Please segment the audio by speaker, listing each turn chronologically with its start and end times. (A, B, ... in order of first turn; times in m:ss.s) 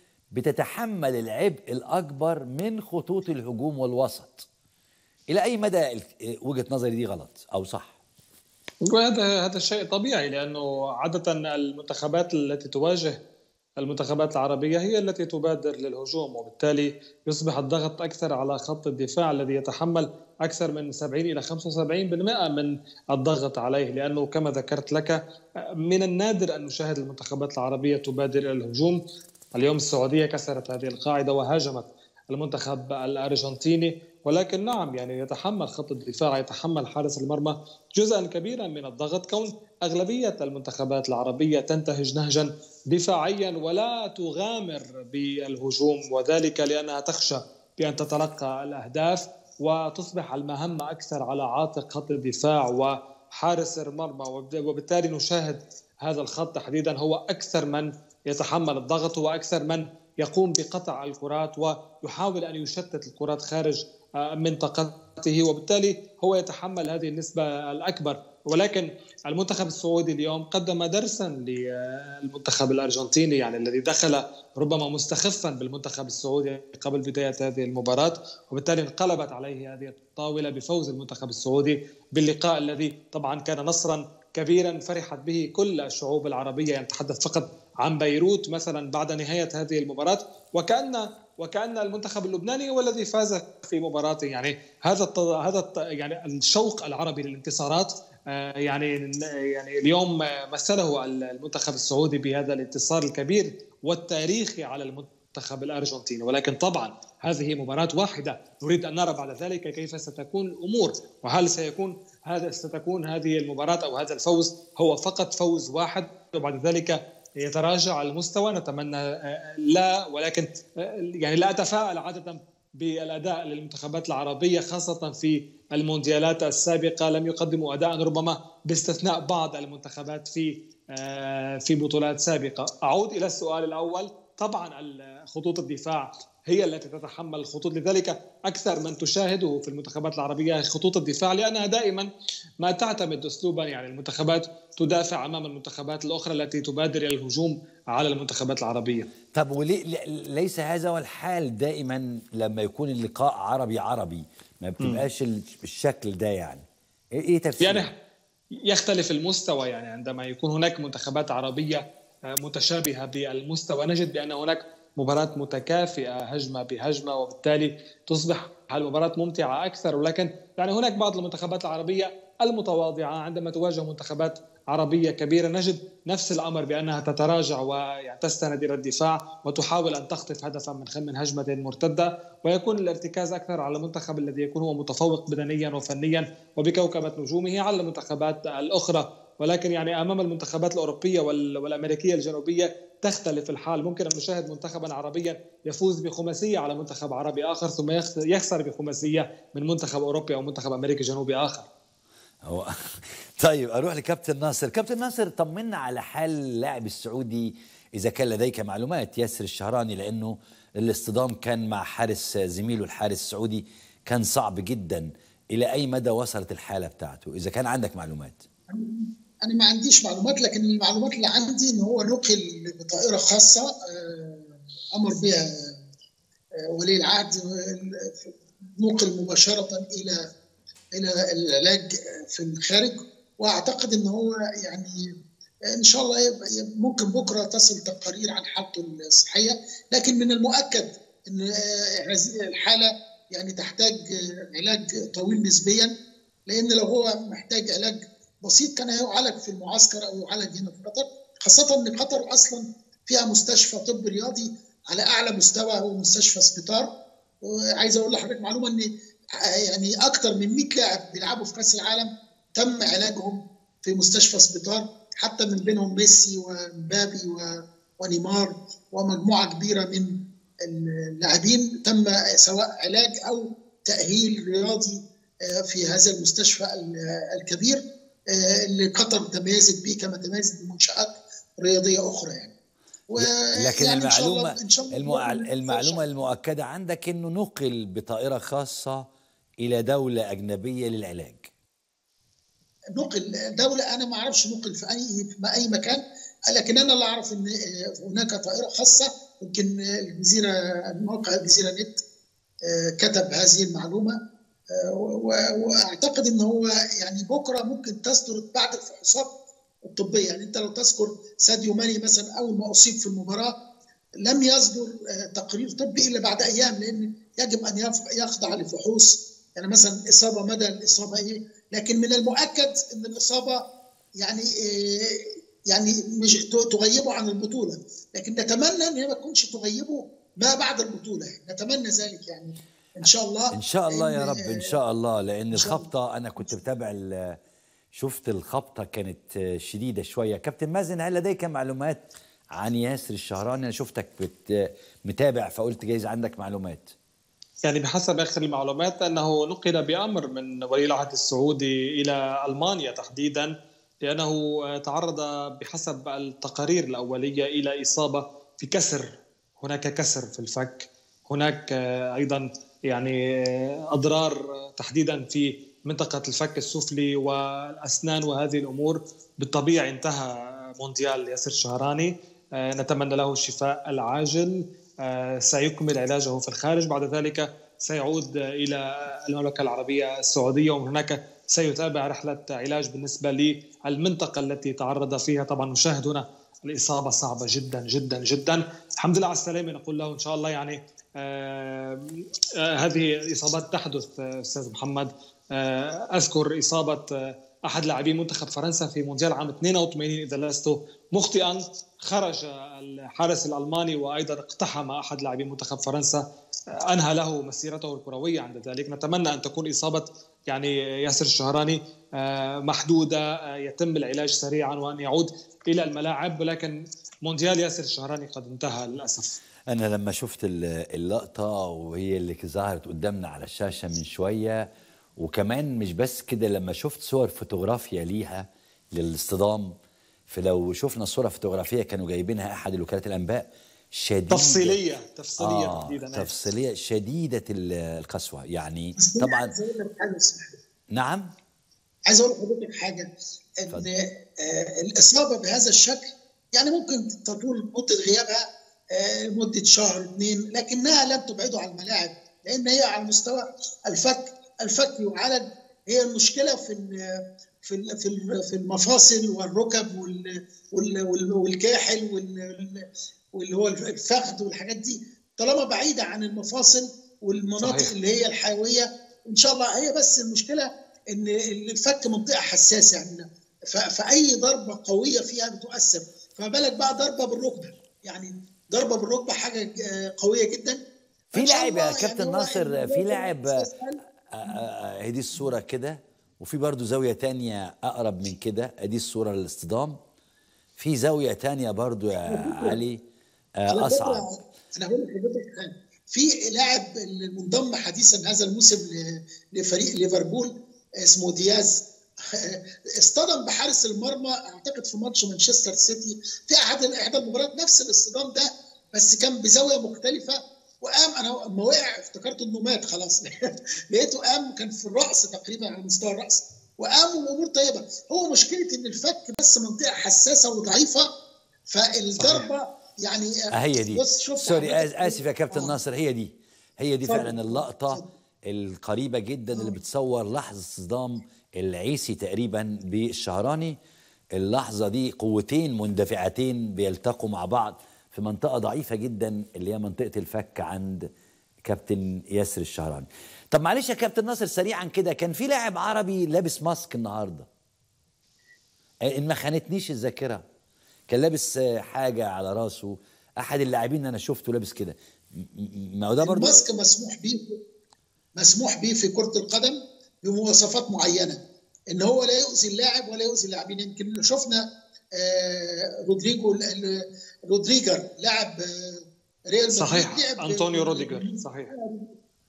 0:00.3-0:04.5 A
0:05.3-0:08.0 A
0:08.9-0:13.2 B
0:13.8-0:25.2 B
0:25.8-0:29.0 B
0:29.6-2:00.5 B
2:01.2-2:22.1 B
2:22.6-2:29.1 B
2:29.3-2:36.6 A
2:37.2-2:37.9 A
2:37.6-2:37.9 B
2:38.7-2:41.8 B
2:42.4-3:21.7 B
3:22.4-3:38.4 A
3:38.7-3:45.8 C
3:46.7-3:50.3 C
3:51.0-3:55.1 C
3:55.7-4:05.9 C
4:06.5-4:16.9 C
4:17.4-4:42.5 C
4:43.1-4:46.2 C
4:43.2-4:49.0 A
4:49.6-4:51.5 A
4:53.0-5:02.0 C
5:02.6-5:04.2 C
5:04.7-5:09.3 C
5:09.8-5:13.5 C
5:14.2-5:23.6 C
5:24.2-5:34.8 C
5:33.5-5:37.4 A
5:35.5-5:35.9 C
5:38.0-5:46.9 A
5:47.6-5:53.5 B
5:54.0-6:32.0 B
6:32.7-6:46.2 B
6:46.9-6:59.3 B
6:59.7-7:04.7 A
7:05.2-7:09.8 A
7:10.3-7:14.8 A
7:14.3-7:16.3 B
7:15.4-7:19.5 A
7:19.0-7:20.6 C
7:20.9-7:21.3 A
7:22.1-8:00.8 C
7:47.6-7:47.9 B
8:01.3-8:03.7 A
8:01.4-8:04.6 C
8:04.3-8:10.0 A
8:10.8-8:13.0 A
8:12.2-8:12.8 C
8:13.6-8:14.2 A
8:13.7-8:41.1 C
8:41.7-8:45.8 C
8:42.1-8:42.5 B
8:43.5-8:53.8 A
8:47.0-8:48.0 C
8:54.4-9:01.1 A
9:01.7-9:07.5 A
9:09.1-9:10.4 A
9:11.1-9:16.6 A
9:16.2-9:17.6 C
9:18.4-9:32.1 C
9:29.7-9:31.7 B